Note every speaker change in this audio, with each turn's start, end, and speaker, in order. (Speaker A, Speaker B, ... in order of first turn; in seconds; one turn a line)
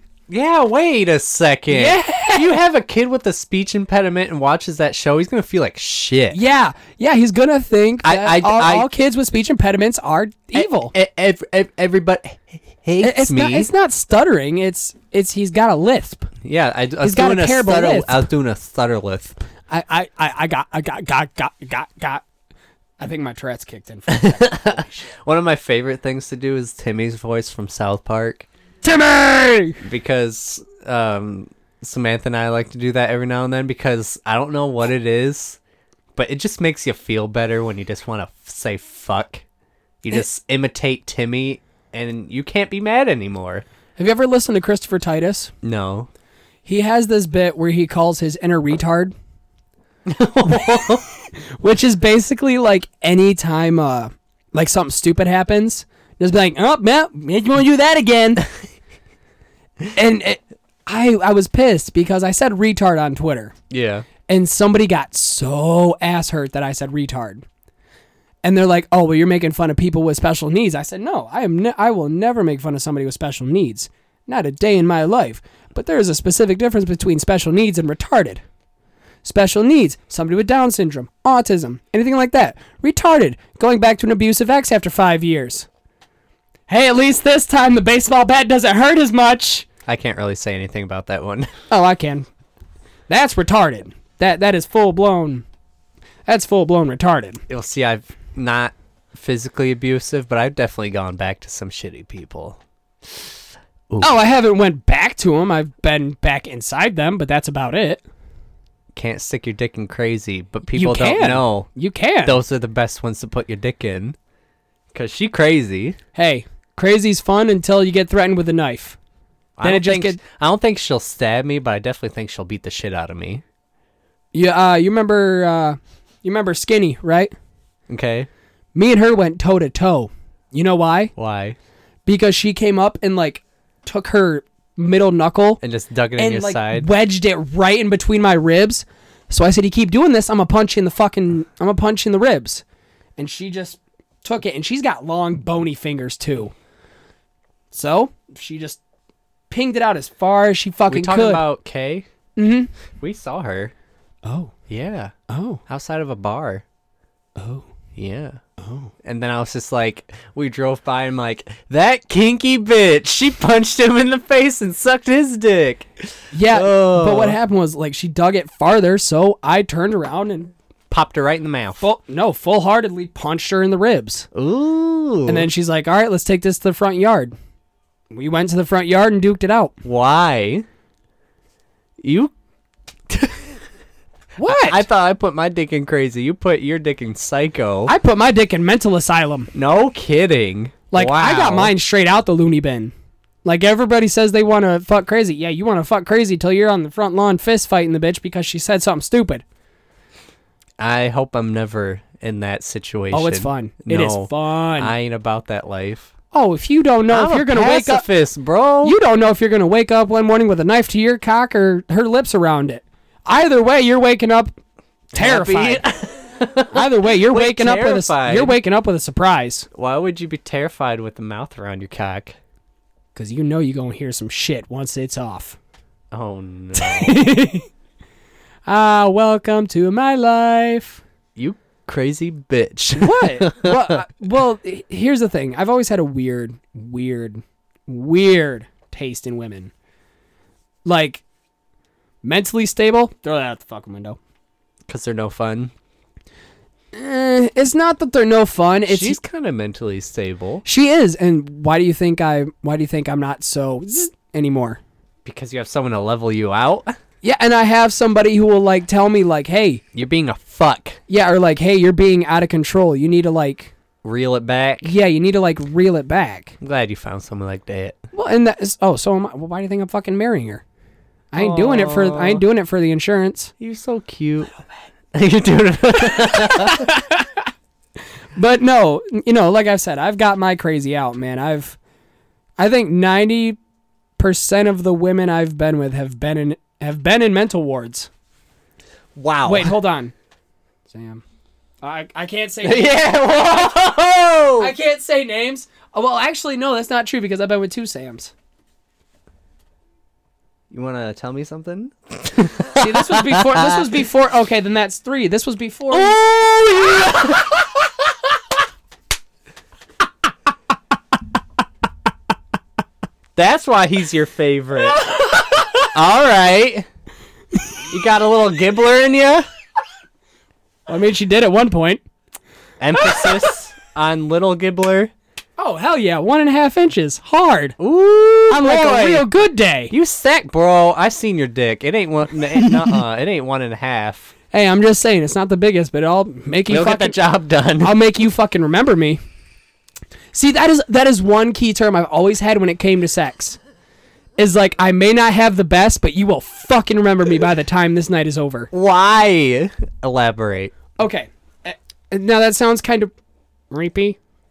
Speaker A: 0.3-6.4
Speaker B: 1.7-2.5
Speaker B: 6.3-10.9
Speaker A: 8.0-8.9
Speaker A: 10.5-13.7
Speaker B: 13.0-16.3
Speaker A: 16.4-19.4
Speaker B: 17.0-18.3
Speaker B: 19.7-22.2
Speaker B: 23.0-25.1
Speaker A: 24.1-28.5
Speaker B: 28.8-29.8
Speaker A: 29.8-35.6
Speaker A: 36.2-39.4
Speaker A: 40.0-43.6
Speaker B: 44.0-45.5
Speaker A: 45.6-46.1
Speaker B: 46.7-49.1
Speaker A: 50.1-51.0
Speaker B: 51.6-58.5
Speaker B: 59.9-63.5
Speaker A: 63.7-64.1
Speaker B: 64.3-67.5
Speaker B: 68.4-78.4
Speaker B: 79.2-85.7
Speaker B: 86.7-89.7
Speaker A: 89.9-91.5
Speaker B: 91.7-92.3
Speaker B: 93.1-95.5
Speaker B: 96.3-97.4
Speaker A: 97.5-102.6
Speaker B: 104.0-108.0
Speaker A: 108.9-111.7
Speaker B: 110.7-112.4
Speaker A: 112.2-114.2
Speaker A: 114.9-116.0
Speaker B: 116.2-119.0
Speaker A: 119.6-123.4
Speaker B: 119.6-120.2
Speaker B: 124.3-127.3
Speaker A: 127.9-128.3
Speaker B: 128.8-131.1
Speaker A: 131.2-131.6
Speaker B: 132.1-135.6
Speaker A: 135.6-136.9
Speaker B: 136.2-142.6
Speaker B: 143.2-146.5
Speaker B: 147.7-148.8
Speaker B: 149.5-151.4
Speaker A: 150.9-152.1
Speaker B: 152.4-152.7
Speaker A: 153.0-153.7
Speaker B: 154.2-154.5
Speaker A: 154.7-155.1
Speaker B: 155.3-155.6
Speaker A: 155.7-156.6
Speaker B: 157.4-157.7
Speaker A: 158.0-158.4
Speaker B: 158.6-158.9
Speaker A: 159.0-167.4
Speaker B: 166.3-170.5
Speaker A: 170.9-171.8
Speaker B: 171.8-174.3
Speaker A: 174.3-175.5
Speaker B: 175.3-177.3
Speaker B: 178.1-179.7
Speaker A: 179.8-180.7
Speaker A: 182.0-182.3
Speaker A: 183.1-183.5
Speaker B: 184.4-184.8
Speaker A: 184.4-187.9
Speaker B: 187.9-189.5
Speaker A: 189.5-191.7
Speaker B: 190.9-192.9
Speaker B: 193.4-199.4
Speaker A: 200.8-206.1
Speaker B: 203.1-204.9
Speaker B: 206.3-208.1
Speaker A: 207.1-209.0
Speaker B: 208.8-214.5
Speaker B: 215.1-215.8
Speaker A: 215.1-218.6
Speaker B: 216.7-219.7
Speaker A: 219.7-222.4
Speaker B: 223.2-225.6
Speaker A: 226.1-227.2
Speaker B: 226.8-227.7
Speaker B: 228.7-231.0
Speaker A: 231.4-234.0
Speaker B: 233.0-239.7
Speaker B: 240.8-241.2
Speaker B: 242.2-244.2
Speaker A: 244.9-245.7
Speaker B: 246.9-249.2
Speaker A: 248.9-250.6
Speaker B: 250.7-254.8
Speaker A: 255.2-257.0
Speaker B: 257.2-259.8
Speaker A: 259.9-261.0
Speaker B: 261.1-263.7
Speaker A: 264.0-264.9
Speaker B: 264.8-266.6
Speaker A: 266.6-268.0
Speaker B: 268.1-270.6
Speaker B: 271.3-273.5
Speaker A: 271.4-272.4
Speaker A: 273.6-274.5
Speaker A: 275.1-276.9
Speaker B: 276.1-277.4
Speaker B: 278.4-281.8
Speaker B: 282.6-283.6
Speaker B: 284.2-288.1
Speaker A: 289.2-289.8
Speaker B: 289.4-290.1
Speaker B: 290.9-291.2
Speaker B: 291.8-293.0
Speaker A: 292.6-294.7
Speaker B: 294.6-298.3
Speaker A: 300.7-303.9
Speaker B: 302.8-306.2
Speaker A: 305.9-307.7
Speaker A: 313.4-315.1
Speaker A: 315.9-316.9
Speaker A: 317.9-319.5
Speaker B: 320.9-322.0
Speaker A: 322.8-325.1
Speaker B: 323.0-323.4
Speaker B: 325.6-327.8
Speaker A: 327.8-329.3
Speaker B: 328.5-329.9
Speaker A: 329.9-334.3
Speaker B: 334.5-337.2
Speaker A: 336.7-338.0
Speaker B: 337.8-339.2
Speaker B: 340.3-343.6
Speaker B: 344.4-348.7
Speaker A: 348.7-350.7
Speaker B: 351.0-353.1
Speaker B: 353.7-354.2